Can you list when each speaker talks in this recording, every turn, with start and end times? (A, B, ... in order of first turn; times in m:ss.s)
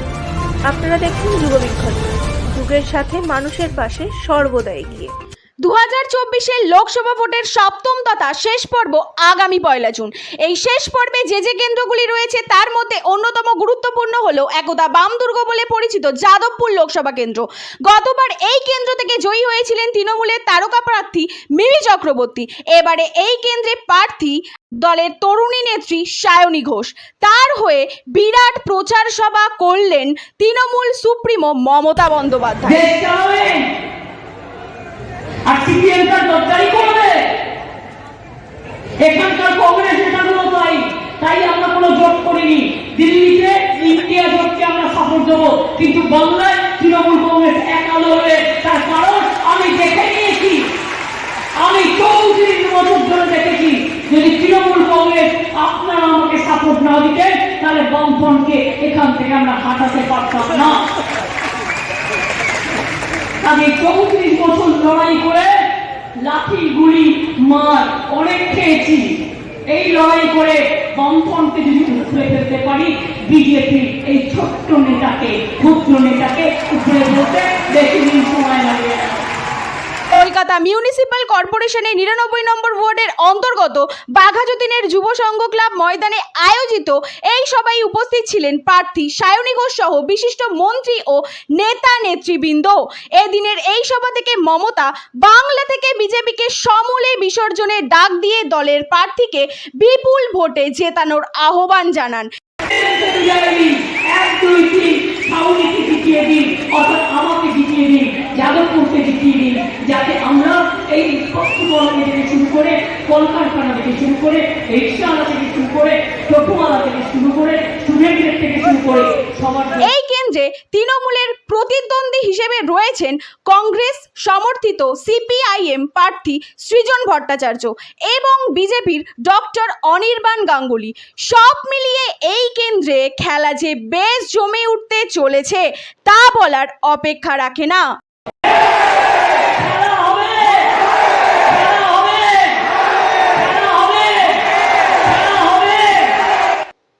0:00.7-0:05.1 A
0:05.6-0:32.9 B
0:32.6-0:33.6 C
0:35.4-0:37.2 C
0:39.0-0:50.7 C
0:51.6-1:00.8 C
1:03.4-1:05.6 C
1:06.2-1:09.2 C
1:09.7-1:19.3 C
1:20.1-1:42.3 B
1:42.7-1:59.9 C
1:59.8-2:17.8 B
2:19.6-2:20.7 C
2:21.5-2:22.6 C
2:23.3-2:24.4 C
2:25.0-2:26.1 C